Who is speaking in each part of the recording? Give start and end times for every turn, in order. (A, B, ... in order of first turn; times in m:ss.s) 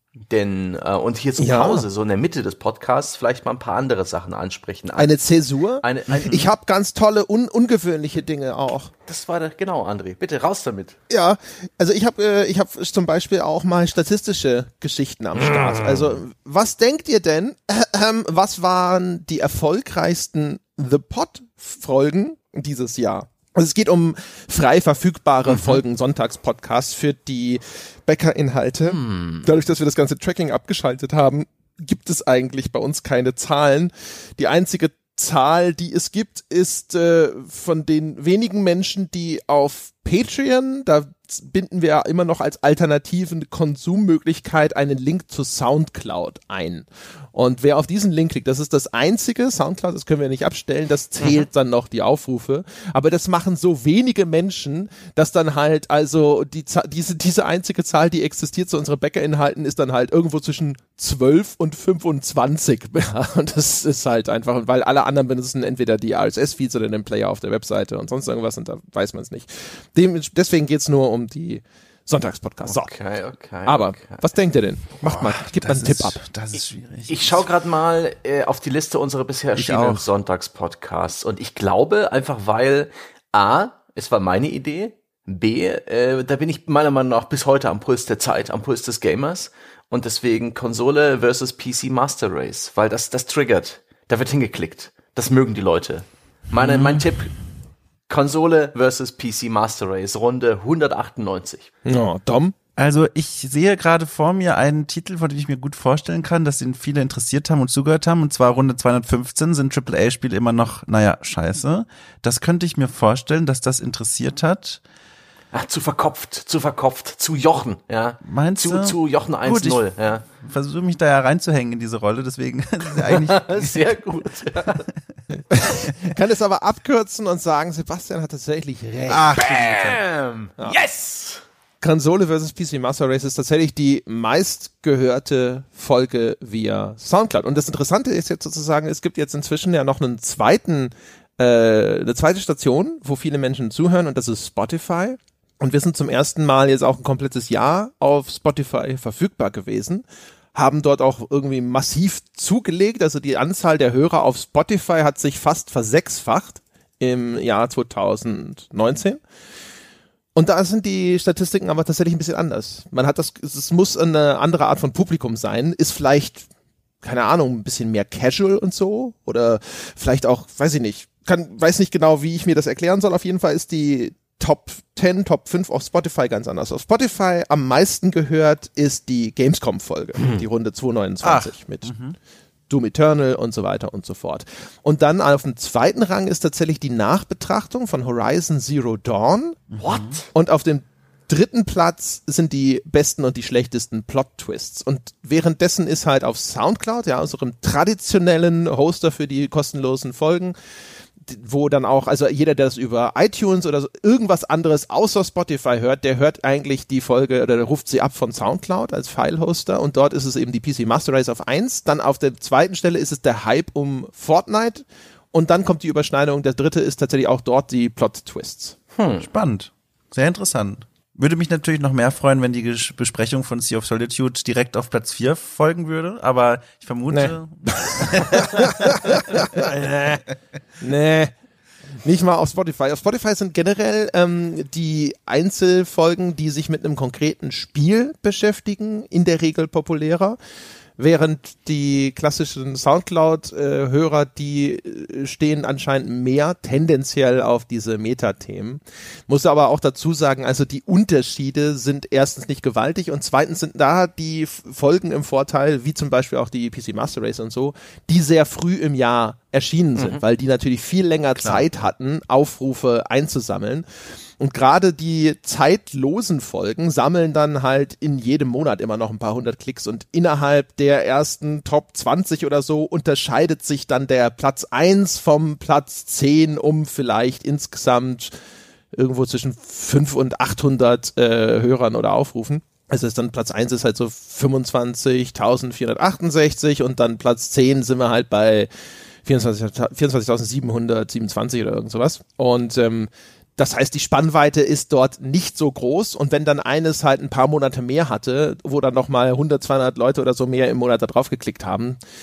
0:00.3-0:05.1 A
0:01.4-0:01.8 B
0:05.0-0:08.9 B
0:05.8-0:06.4 A
0:09.1-0:11.0 A
0:11.1-1:12.9 B
0:15.4-0:16.1 A
0:28.9-0:29.4 A
1:12.7-1:14.2 A
1:13.6-1:16.2 B
1:15.0-1:17.5 C
1:17.1-1:37.3 A
1:19.6-1:20.0 C
1:36.5-1:37.1 C
1:38.1-1:41.7 A
1:41.8-1:42.5 B
1:42.8-1:54.8 C
1:55.5-2:00.2 A
1:58.2-2:03.9 C
2:03.0-2:04.8 A
2:05.5-2:10.0 B
2:09.1-2:11.4 A
2:09.5-2:09.8 C
2:11.8-2:39.2 B
2:40.4-2:46.5 B
2:47.0-3:01.9 B
3:00.2-3:00.4 A
3:01.2-3:02.2 C
3:02.7-3:09.6 B
3:09.7-3:10.2 C
3:09.8-3:10.3 A
3:10.3-3:20.5 B
3:21.2-3:38.8 B
3:39.0-3:39.3 A
3:39.2-3:49.6 C
3:47.1-3:50.2 B
3:50.8-3:51.3 B
3:52.0-4:00.4 B
4:01.0-4:23.8 B
4:20.0-4:20.2 A
4:21.4-4:21.6 C
4:24.4-4:38.3 B
4:38.9-4:48.7 B
4:49.2-5:02.0 B